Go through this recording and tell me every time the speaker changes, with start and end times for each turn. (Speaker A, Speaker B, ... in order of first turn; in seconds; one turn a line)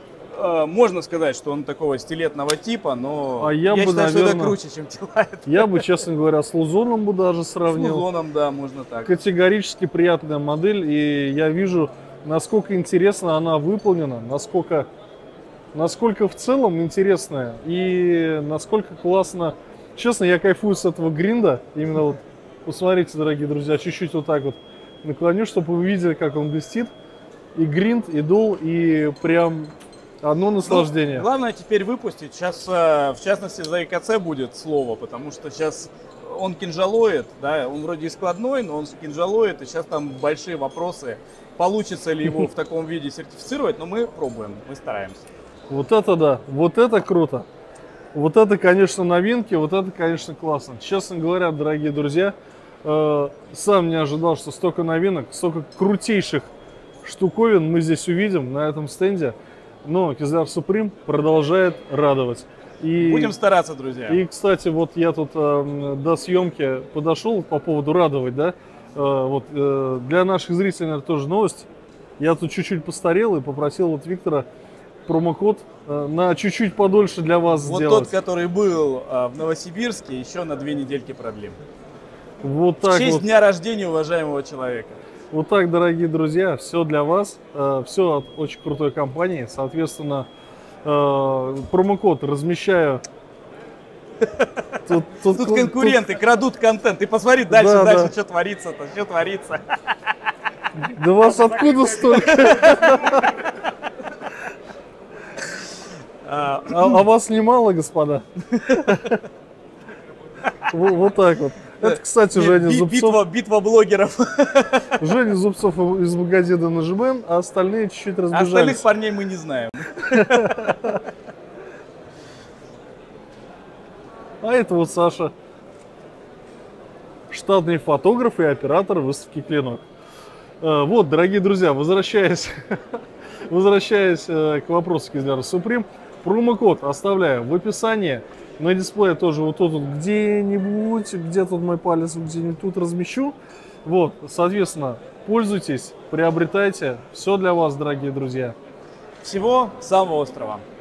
Speaker A: 0.3-5.9
Speaker B: 3.4-4.6
Speaker B: 5.5-8.1
Speaker A: 7.7-9.1
Speaker B: 9.0-14.9
Speaker B: 15.7-26.9
Speaker B: 27.5-31.2
Speaker A: 30.6-45.2
Speaker B: 45.7-47.5
Speaker B: 48.1-56.5
Speaker B: 57.0-63.3
Speaker A: 63.0-64.2
Speaker B: 64.1-71.7
Speaker B: 72.2-74.5
Speaker B: 75.1-78.1
Speaker A: 77.5-81.6
Speaker B: 82.4-83.2
Speaker A: 82.8-85.0
Speaker B: 85.3-90.3
Speaker B: 90.8-93.0
Speaker A: 94.2-94.6
Speaker B: 94.9-96.0
Speaker A: 95.2-99.6
Speaker B: 97.5-98.1
Speaker B: 100.8-103.2
Speaker A: 102.1-102.9
Speaker A: 106.2-107.0
Speaker B: 106.7-109.2
Speaker A: 108.5-108.8
Speaker B: 110.7-113.2
Speaker A: 111.8-115.1
Speaker B: 115.0-118.8
Speaker A: 118.3-121.0
Speaker B: 120.1-120.8
Speaker B: 124.4-125.3
Speaker B: 127.3-129.8
Speaker B: 130.6-148.5
Speaker A: 149.2-150.6